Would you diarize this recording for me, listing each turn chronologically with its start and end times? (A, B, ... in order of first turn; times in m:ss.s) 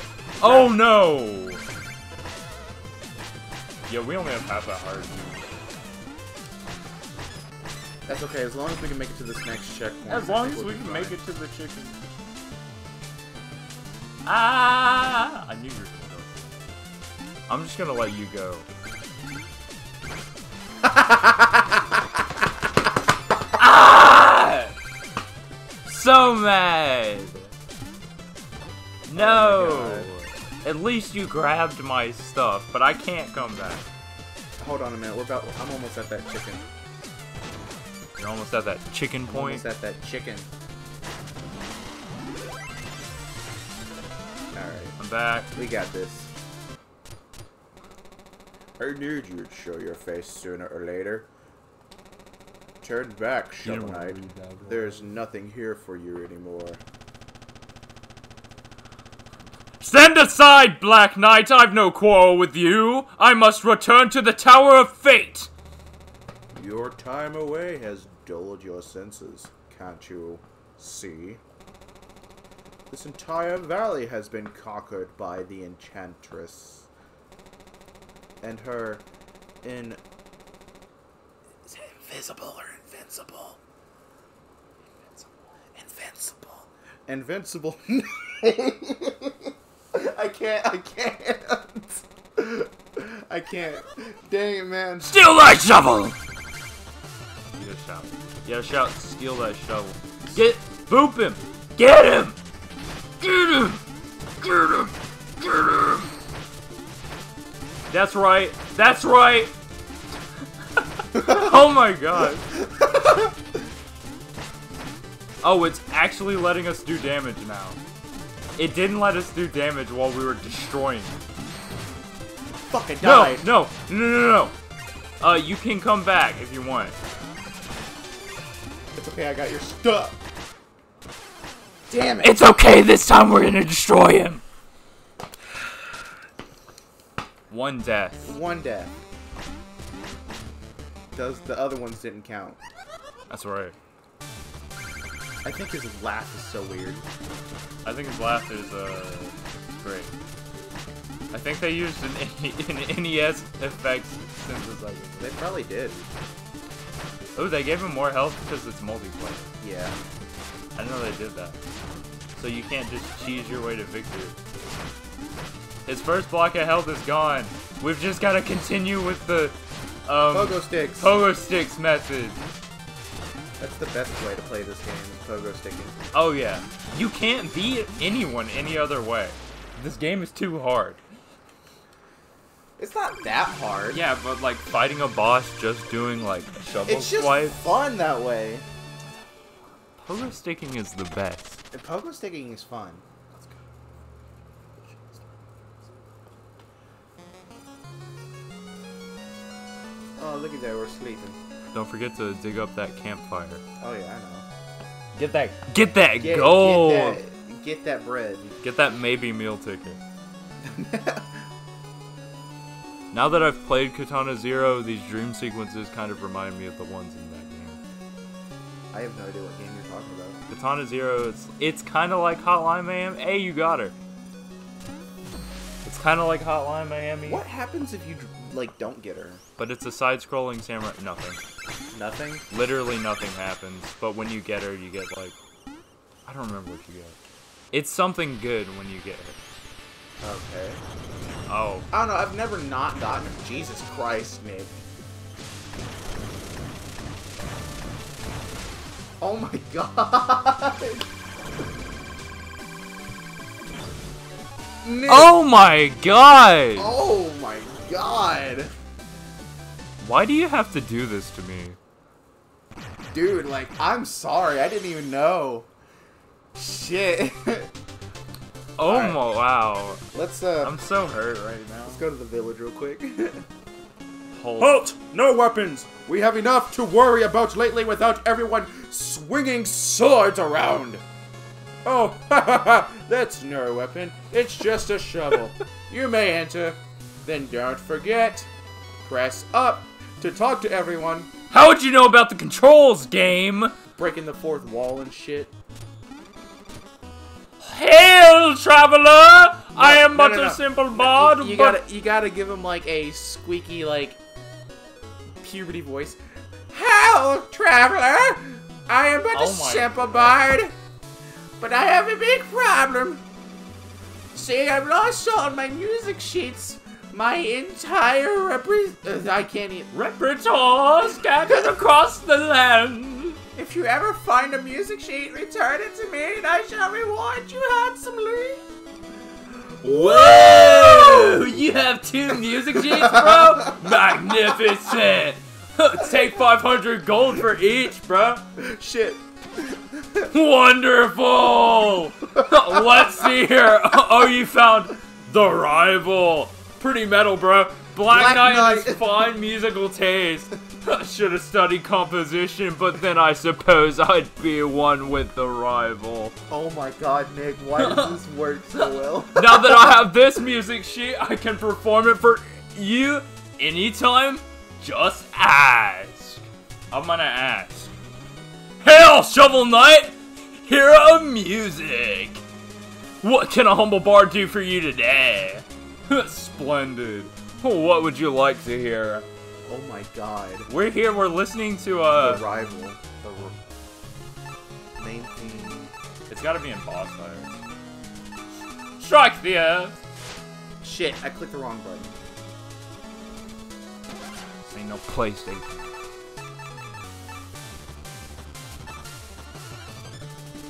0:00.4-0:01.6 A
0:00.4-0:00.8 B
0:03.9-0:05.5 A
0:08.1-0:11.2 B
0:10.1-0:12.0 A
0:14.2-0:16.6 A
0:17.5-0:18.7 A
0:20.8-0:21.8 B
0:23.6-0:24.7 A
0:25.8-0:27.5 A
0:29.1-0:33.8 A
0:29.1-0:30.1 B
0:34.6-0:36.6 B
0:38.2-0:39.6 A
0:39.3-0:40.5 B
0:44.5-0:45.0 B
0:45.0-0:45.5 A
0:45.5-0:46.3 B
0:48.8-0:51.3 B
0:52.8-0:56.8 B
0:53.6-0:55.1 A
0:59.8-1:05.5 A
1:06.5-1:11.4 B
1:12.9-1:16.9 B
1:18.4-1:19.0 B
1:19.6-1:20.0 B
1:21.6-1:23.6 B
1:25.8-1:35.1 B
1:35.0-1:36.2 A
1:37.5-1:42.4 A
1:43.2-1:43.8 A
1:44.4-1:46.1 A
1:47.9-1:49.5 A
1:50.8-1:52.5 A
1:51.1-1:51.4 B
1:52.5-1:53.3 B
1:55.4-1:57.8 A
1:58.6-2:01.2 A
2:02.7-2:03.5 B
2:03.0-2:04.5 A
2:05.2-2:07.0 A
2:08.9-2:10.2 B
2:11.9-2:12.4 B
2:12.2-2:14.4 A
2:17.5-2:18.4 A
2:18.2-2:18.9 B
2:21.1-2:22.6 B
2:23.3-2:23.8 A
2:25.4-2:27.1 B
2:27.8-2:30.1 A
2:31.3-2:35.4 A
2:35.2-2:36.1 B
2:37.4-2:39.5 A
2:39.6-2:40.0 B
2:40.8-2:41.6 A
2:42.4-2:44.4 A
2:45.8-2:49.6 A
2:50.1-2:52.4 A
2:50.3-2:51.2 B
2:53.6-2:56.0 B
2:56.1-3:01.0 A
3:02.8-3:04.0 B
3:03.9-3:07.6 A
3:06.8-3:08.6 B
3:10.0-3:11.6 A
3:11.7-3:13.0 B
3:14.8-3:15.3 A
3:20.2-3:21.4 B
3:21.7-3:23.6 A
3:23.8-3:24.4 B
3:25.1-3:27.2 A
3:26.2-3:28.6 B
3:28.6-3:30.0 A
3:30.6-3:31.5 B
3:33.1-3:37.8 A
3:38.9-3:40.4 B
3:40.5-3:43.9 A
3:45.8-3:47.4 A
3:47.2-3:49.4 B
3:49.6-3:51.4 A
3:51.9-3:52.4 B
3:52.5-3:55.4 A
3:56.2-3:57.2 A
3:57.7-3:59.4 A
4:00.2-4:00.8 B
4:01.5-4:01.9 A
4:01.9-4:04.8 B
4:09.2-4:11.1 B
4:14.8-4:15.3 B
4:15.1-4:16.9 A
4:16.8-4:18.7 B
4:20.0-4:21.8 A
4:23.1-4:25.7 B
4:26.5-4:27.7 B
4:28.8-4:30.0 A
4:28.8-4:29.2 B
4:30.1-4:30.8 B
4:30.6-4:32.0 A
4:31.8-4:33.4 B
4:34.3-4:34.8 A
4:34.6-4:41.0 B
4:41.8-4:48.5 B
4:49.0-4:51.3 B
4:51.5-4:53.7 A
4:54.0-4:55.5 B
4:57.6-5:01.8 A
4:59.7-5:04.2 B
5:05.4-5:06.2 B
5:06.7-5:10.7 B
5:09.3-5:10.4 A
5:11.6-5:13.2 B
5:14.3-5:19.9 B
5:19.9-5:23.4 A
5:23.6-5:28.6 B
5:29.8-5:38.4 A
5:29.8-5:31.4 B
5:32.7-5:33.8 B
5:38.6-5:40.3 B
5:40.3-5:56.4 A
5:48.1-5:49.0 B
5:56.5-6:00.0 B
5:57.8-5:58.2 A
5:58.8-6:07.9 A
6:08.8-6:12.4 A
6:13.2-6:19.2 A
6:19.6-6:20.7 B
6:20.7-6:22.4 A
6:22.2-6:23.0 B
6:23.2-6:23.6 A
6:25.0-6:25.9 B
6:26.3-6:27.6 A
6:29.0-6:30.0 A
6:30.8-6:32.1 B
6:34.6-6:35.8 A